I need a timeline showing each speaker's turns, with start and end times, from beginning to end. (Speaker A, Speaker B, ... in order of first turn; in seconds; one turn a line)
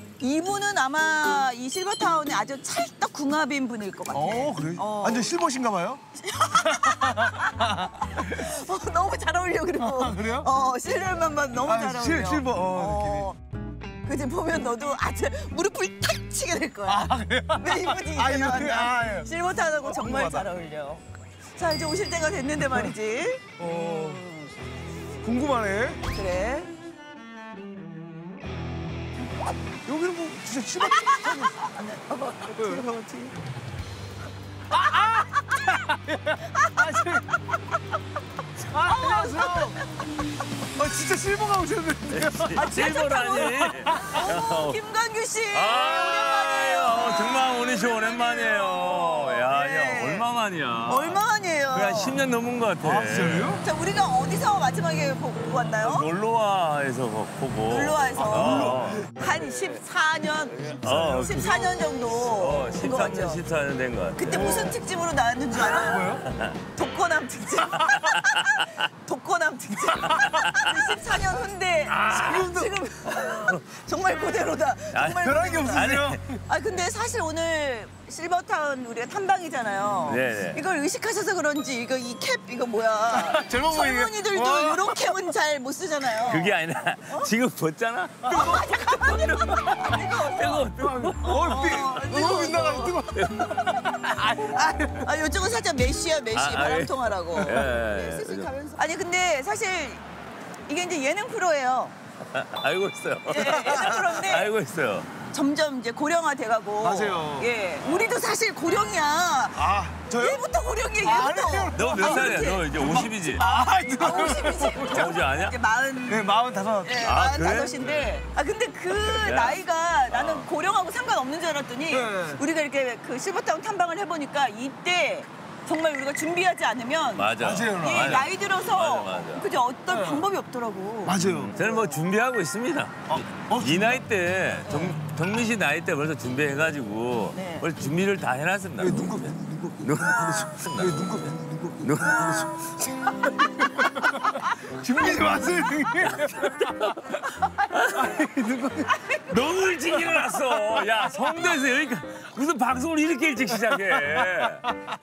Speaker A: 0.2-5.3
Speaker B: 4.1-6.0
Speaker A: 6.2-13.4
Speaker B: 6.7-8.3
Speaker B: 9.8-10.5
Speaker B: 11.7-13.3
Speaker A: 14.0-21.0
Speaker B: 16.9-20.5
Speaker A: 21.6-24.5
Speaker B: 23.6-24.2
Speaker B: 25.2-26.0
Speaker A: 26.1-26.7
Speaker B: 29.8-31.8
Speaker A: 30.8-33.3
Speaker B: 32.5-33.2
Speaker B: 34.7-37.4
Speaker A: 35.2-35.8
Speaker A: 36.4-37.2
Speaker B: 38.6-39.8
Speaker A: 38.8-39.9
Speaker B: 40.8-42.6
Speaker C: 42.1-44.8
Speaker A: 42.5-50.3
Speaker B: 43.9-44.2
Speaker C: 45.5-53.6
Speaker A: 50.9-52.2
Speaker B: 52.8-53.6
Speaker A: 53.6-56.1
Speaker C: 55.8-59.1
Speaker A: 57.7-63.4
Speaker B: 58.1-59.0
Speaker C: 60.8-64.8
Speaker A: 64.2-66.1
Speaker B: 65.6-66.2
Speaker C: 65.9-66.6
Speaker A: 66.7-86.5
Speaker C: 70.3-70.7
Speaker C: 71.9-73.6
Speaker B: 72.2-72.7
Speaker C: 74.9-76.2
Speaker B: 75.2-76.4
Speaker C: 80.0-80.6
Speaker B: 83.1-85.0
Speaker C: 86.2-91.9
Speaker B: 88.2-88.9
Speaker A: 88.3-93.0
Speaker B: 90.8-95.1
Speaker C: 93.1-93.9
Speaker A: 94.3-100.0
Speaker C: 96.3-98.5
Speaker B: 97.4-97.7
Speaker A: 100.7-101.9
Speaker C: 102.3-105.1
Speaker A: 103.2-104.5
Speaker B: 103.6-104.0
Speaker A: 105.3-132.0
Speaker B: 106.8-107.5
Speaker B: 109.5-110.4
Speaker B: 111.0-115.2
Speaker C: 111.7-113.4
Speaker C: 114.7-115.5
Speaker B: 116.1-117.1
Speaker C: 117.0-118.2
Speaker C: 119.1-120.5
Speaker B: 121.9-122.4
Speaker C: 127.1-129.5
Speaker B: 127.4-128.2
Speaker B: 129.9-130.2
Speaker B: 131.0-131.5
Speaker C: 131.2-142.7
Speaker B: 133.1-134.0
Speaker A: 134.6-135.0
Speaker A: 137.3-137.7
Speaker B: 138.8-146.8
Speaker C: 145.0-148.2
Speaker B: 147.9-149.0
Speaker C: 149.1-154.7
Speaker B: 153.7-154.5